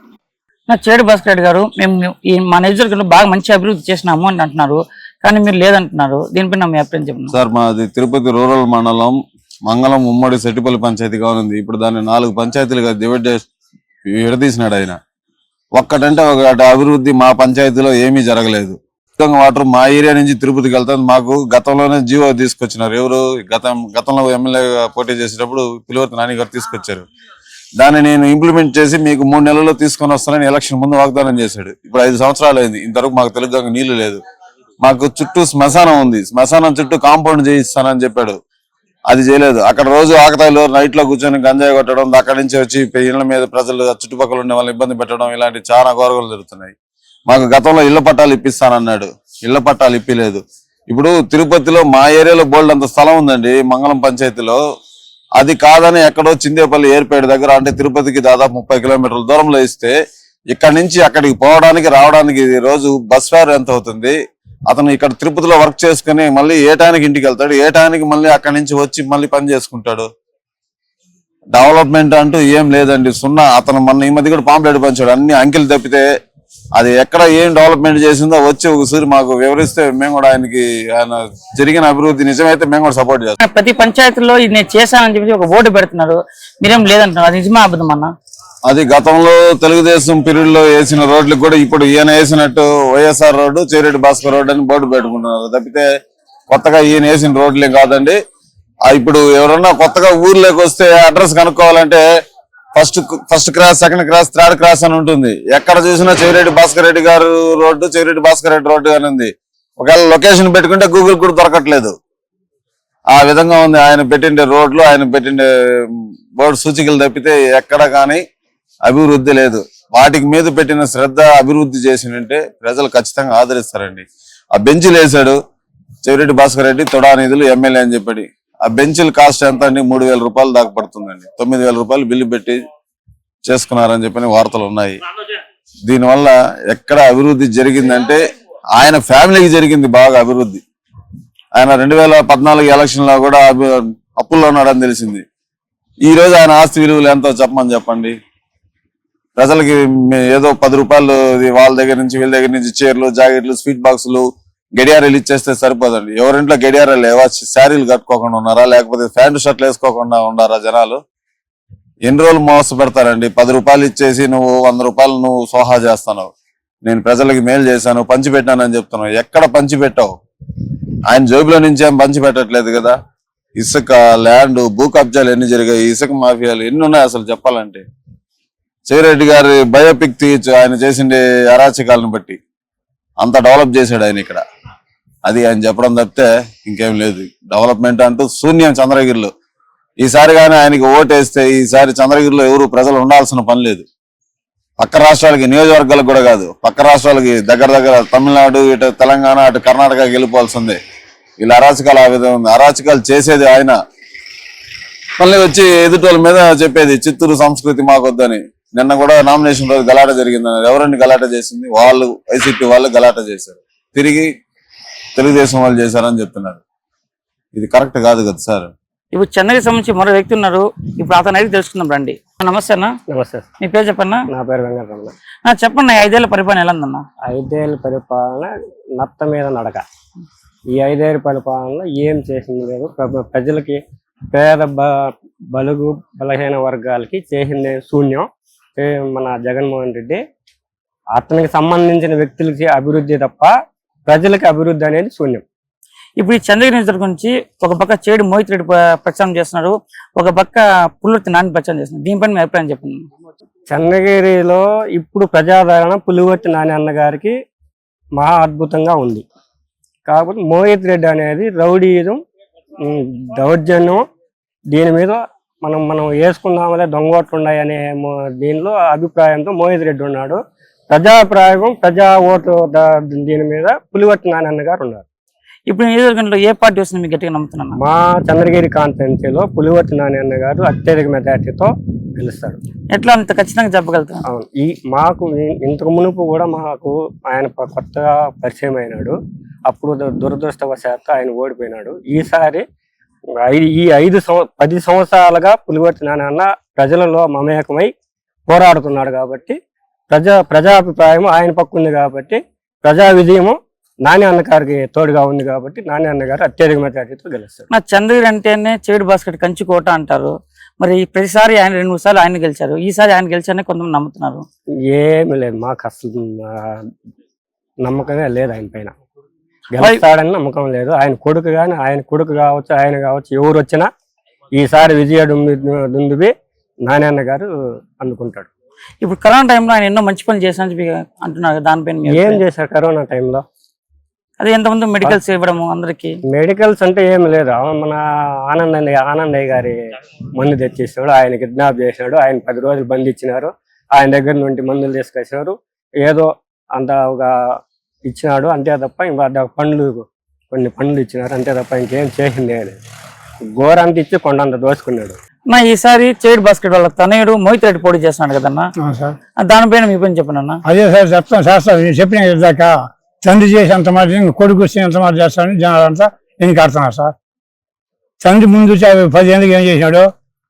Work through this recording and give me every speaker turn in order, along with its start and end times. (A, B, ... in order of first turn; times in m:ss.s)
0:00.7-0:07.3 A
0:07.3-0:09.2 B
0:09.7-0:13.4 B
0:14.1-0:15.0 B
0:15.8-0:27.1 B
0:27.8-0:34.2 B
0:34.8-0:38.4 B
0:39.1-0:46.7 B
0:47.3-0:54.6 B
0:55.4-1:00.0 B
1:00.5-1:04.2 B
1:04.7-1:10.1 B
1:11.5-1:16.0 B
1:16.8-1:23.4 B
1:23.4-1:28.1 A
1:28.7-1:35.9 B
1:36.5-1:38.2 B
1:38.9-1:42.0 B
1:42.8-1:52.0 B
1:53.1-1:58.2 B
1:58.8-2:05.4 B
2:06.0-2:12.6 B
2:13.5-2:15.0 B
2:15.9-2:18.2 B
2:18.8-2:20.6 B
2:21.6-2:25.2 B
2:26.1-2:28.2 B
2:29.4-2:34.3 B
2:34.8-2:41.0 B
2:42.0-2:46.3 B
2:46.8-2:50.1 B
2:51.1-2:53.0 B
2:53.6-2:57.8 B
2:58.9-3:02.4 B
3:03.2-3:04.4 B
3:05.2-3:09.3 B
3:10.0-3:13.9 B
3:14.8-3:20.8 B
3:21.4-3:23.8 B
3:25.2-3:34.3 B
3:35.2-3:36.6 B
3:37.6-3:38.7 B
3:39.1-3:42.9 A
3:43.1-3:43.5 C
3:43.6-3:44.2 A
3:44.3-3:45.1 C
3:45.4-3:47.0 A
3:47.2-3:49.8 C
3:50.7-4:00.2 C
4:01.2-4:03.5 C
4:04.1-4:05.4 C
4:06.2-4:13.0 A
4:13.7-4:17.3 C
4:18.2-4:19.2 C
4:20.1-4:22.2 C
4:22.8-4:24.0 C
4:24.7-4:30.4 C
4:30.9-4:35.0 C
4:35.7-4:37.8 A
4:37.8-4:42.6 C
4:42.9-4:44.2 A
4:44.3-4:52.6 C
4:53.4-4:57.9 C
4:58.5-4:59.6 C
5:00.1-5:07.7 C
5:07.7-5:14.4 A
5:14.9-5:16.9 C
5:17.8-5:18.9 C
5:19.7-5:23.9 C
5:24.5-5:26.3 C
5:26.9-5:27.5 C
5:28.0-5:28.5 C
5:29.0-5:32.4 A
5:32.1-5:33.4 C
5:34.4-5:36.1 A
5:36.3-5:39.8 C
5:40.4-5:47.3 C
5:48.1-5:52.8 C
5:53.6-5:55.2 C
5:55.5-5:58.7 A
5:58.8-5:59.2 D
5:59.4-6:00.6 A
6:00.7-6:07.1 D
6:08.2-6:10.1 D